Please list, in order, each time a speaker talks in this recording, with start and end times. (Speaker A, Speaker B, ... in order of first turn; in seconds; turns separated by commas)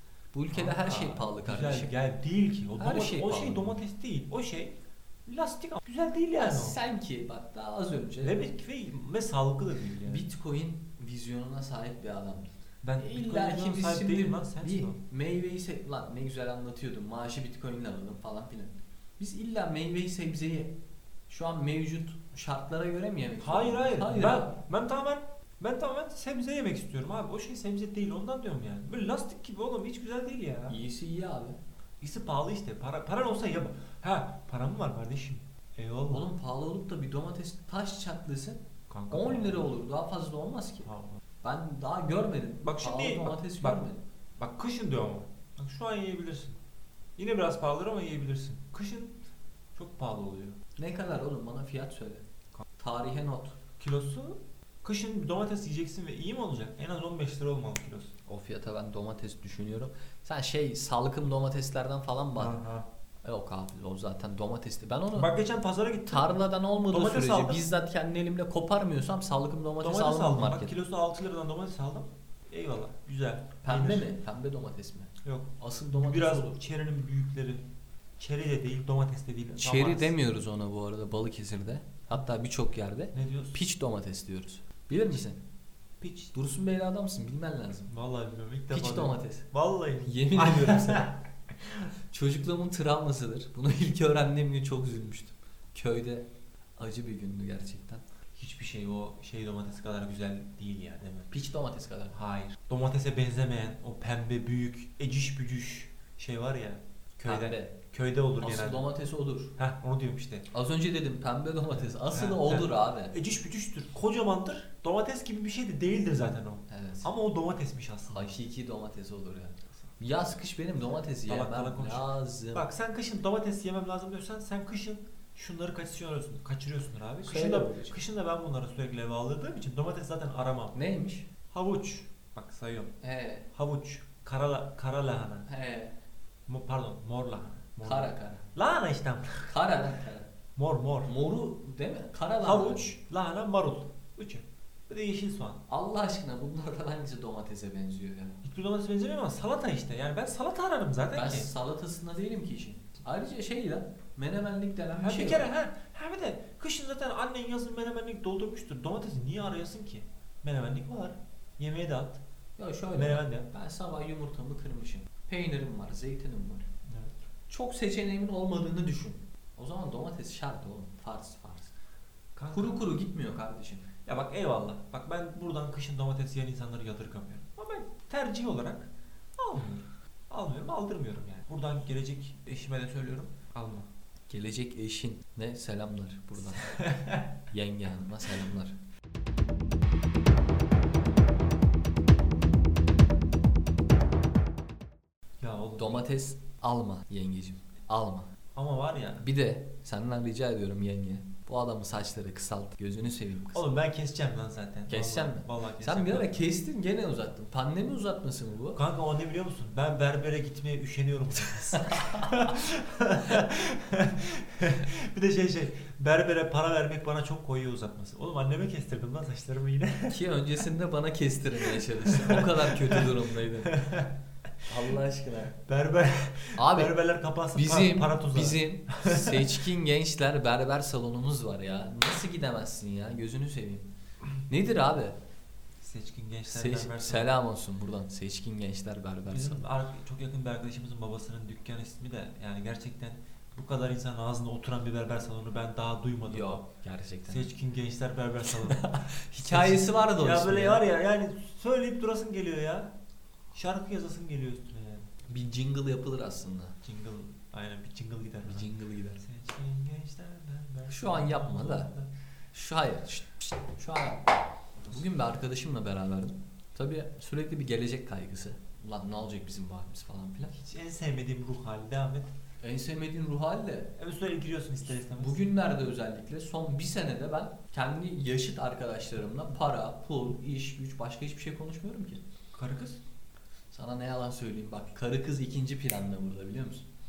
Speaker A: 0.3-1.9, Speaker B: 0.5-6.8, Speaker A: 2.8-3.8, Speaker A: 6.4-8.4, Speaker B: 8.2-10.2, Speaker A: 10.1-20.8, Speaker B: 12.8-15.0, Speaker A: 21.3-24.6, Speaker B: 23.4-30.8, Speaker A: 30.7-31.6, Speaker B: 32.0-36.3, Speaker A: 36.1-40.9, Speaker B: 38.9-39.7, Speaker B: 40.8-41.2, Speaker A: 41.4-44.0, Speaker B: 42.6-43.8, Speaker B: 44.4-46.6, Speaker B: 47.2-50.6, Speaker A: 50.8-52.2, Speaker A: 52.8-53.6, Speaker B: 53.8-58.1, Speaker A: 58.3-62.6, Speaker B: 62.4-62.9, Speaker A: 63.2-65.3, Speaker B: 65.1-67.6, Speaker A: 66.1-70.7, Speaker B: 69.8-74.1, Speaker A: 73.6-76.6, Speaker B: 75.2-77.6, Speaker B: 78.2-80.1, Speaker A: 79.6-85.4, Speaker B: 83.1-83.6, Speaker B: 86.0-86.3, Speaker A: 86.3-87.9, Speaker B: 87.9-91.2, Speaker A: 88.7-89.5, Speaker A: 90.0-91.2, Speaker A: 92.1-98.0, Speaker B: 98.4-101.3, Speaker A: 101.3-102.2, Speaker B: 102.1-108.9, Speaker A: 107.2-107.8, Speaker A: 108.4-109.5, Speaker B: 109.6-110.5, Speaker A: 110.5-113.1, Speaker B: 111.7-118.4, Speaker A: 116.7-117.1, Speaker A: 118.1-122.7, Speaker B: 121.2-130.8, Speaker A: 127.2-128.0, Speaker A: 130.7-131.3, Speaker B: 131.5-132.9, Speaker A: 133.0-133.5, Speaker B: 133.5-135.5, Speaker A: 135.4-136.0, Speaker B: 136.5-139.5, Speaker A: 137.8-138.4, Speaker A: 139.4-140.3, Speaker B: 140.6-141.1, Speaker A: 141.0-142.9, Speaker B: 142.4-145.6, Speaker A: 145.7-148.4, Speaker B: 148.4-151.5, Speaker A: 151.1-155.5, Speaker B: 155.0-162.2, Speaker A: 162.6-166.7, Speaker B: 162.9-163.5, Speaker A: 167.5-171.8, Speaker B: 172.4-172.9, Speaker A: 172.5-173.9, Speaker B: 174.1-183.9, Speaker A: 184.3-186.8, Speaker B: 186.5-187.3, Speaker A: 187.5-188.8, Speaker B: 195.4-196.0, Speaker A: 195.8-198.3, Speaker B: 198.6-199.2, Speaker A: 199.2-203.6, Speaker B: 203.5-206.5, Speaker A: 204.9-208.8, Speaker B: 208.8-220.2, Speaker A: 211.9-212.4, Speaker A: 220.1-223.8, Speaker B: 221.6-224.1, Speaker A: 224.7-225.6, Speaker B: 225.7-229.7, Speaker A: 226.6-226.9, Speaker A: 227.5-233.9, Speaker A: 234.5-235.2, Speaker B: 235.8-237.3, Speaker A: 236.5-239.6, Speaker B: 239.3-246.6, Speaker A: 246.2-247.5, Speaker B: 247.3-252.9, Speaker A: 248.5-250.8, Speaker B: 253.5-255.1, Speaker A: 255.3-256.8, Speaker B: 256.8-262.1, Speaker A: 258.4-259.2, Speaker A: 260.9-261.9, Speaker A: 262.5-264.3, Speaker B: 264.8-265.1, Speaker A: 264.9-270.5, Speaker B: 270.5-272.3, Speaker A: 272.6-273.9, Speaker B: 274.0-275.6, Speaker A: 275.1-282.2, Speaker B: 282.5-283.0, Speaker A: 283.7-286.9